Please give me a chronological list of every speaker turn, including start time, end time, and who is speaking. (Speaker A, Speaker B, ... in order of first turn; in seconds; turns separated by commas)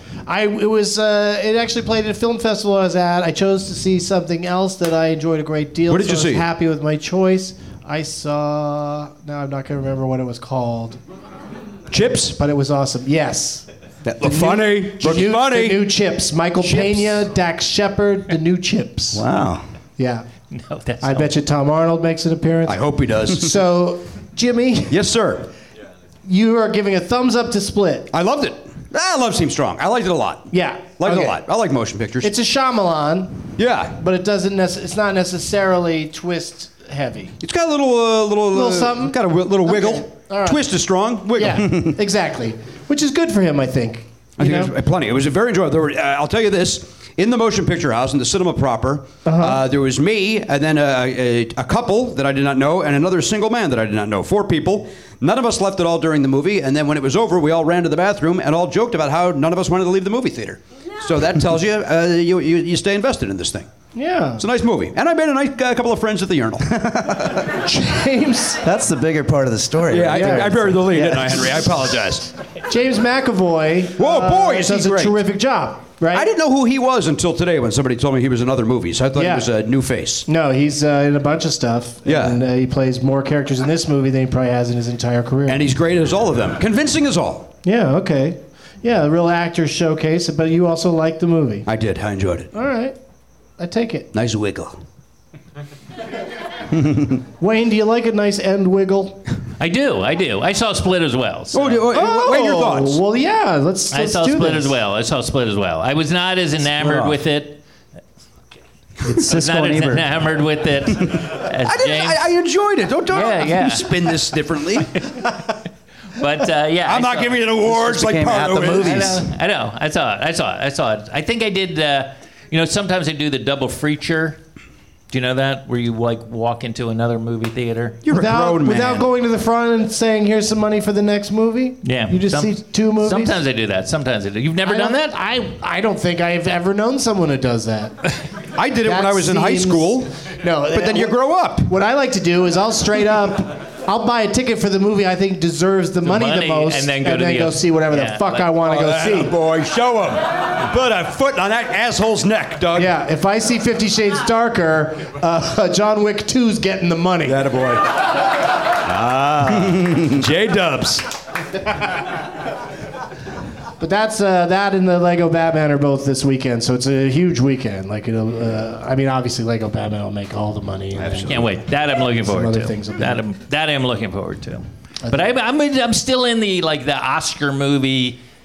Speaker A: 0.3-11.0, Speaker B: 5.9-6.4, Speaker B: 11.9-12.4, Speaker A: 12.4-13.7, Speaker B: 14.1-15.9, Speaker A: 14.2-19.2, Speaker B: 16.6-17.2, Speaker C: 19.1-19.6, Speaker A: 20.0-20.3, Speaker D: 20.5-21.3, Speaker A: 21.0-25.0, Speaker B: 22.6-23.6, Speaker B: 24.9-25.5, Speaker A: 26.3-28.1, Speaker B: 28.1-32.3, Speaker A: 30.5-31.4, Speaker A: 32.2-37.4, Speaker B: 33.6-34.0, Speaker B: 37.4-41.9, Speaker A: 38.5-40.6, Speaker A: 41.4-44.7, Speaker B: 44.4-63.7, Speaker A: 49.2-49.6, Speaker A: 63.9-64.4, Speaker B: 64.4-66.8, Speaker C: 66.7-67.4, Speaker A: 67.6-68.6, Speaker C: 68.6-71.1, Speaker B: 69.9-72.3, Speaker A: 70.1-71.4, Speaker A: 72.7-76.3, Speaker B: 74.0-75.2, Speaker B: 76.1-80.3, Speaker A: 79.2-79.5, Speaker A: 80.3-85.7, Speaker B: 82.1-82.4, Speaker B: 85.5-87.5, Speaker A: 87.6-91.7, Speaker B: 91.7-92.5, Speaker A: 92.5-93.0, Speaker A: 93.6-94.1, Speaker B: 94.1-94.8, Speaker A: 97.4-99.2, Speaker D: 99.6-101.9, Speaker B: 101.5-103.0, Speaker A: 101.9-104.8, Speaker D: 103.9-107.6, Speaker C: 106.7-107.2, Speaker C: 109.0-110.1, Speaker D: 109.3-112.3, Speaker B: 111.5-115.1, Speaker D: 113.1-114.0, Speaker D: 116.2-117.5, Speaker B: 116.8-119.2, Speaker C: 117.6-119.3, Speaker D: 118.7-124.4, Speaker D: 125.1-128.0, Speaker B: 128.0-129.1, Speaker A: 128.1-133.4, Speaker D: 131.8-135.2, Speaker A: 134.6-137.9, Speaker B: 138.6-141.7, Speaker A: 138.8-149.3, Speaker D: 146.0-148.6, Speaker B: 148.7-152.9, Speaker A: 152.8-157.4, Speaker B: 157.3-157.8, Speaker B: 158.8-161.1, Speaker A: 163.8-171.4, Speaker B: 170.9-171.5, Speaker D: 171.3-178.2, Speaker A: 172.2-173.2, Speaker A: 175.1-175.3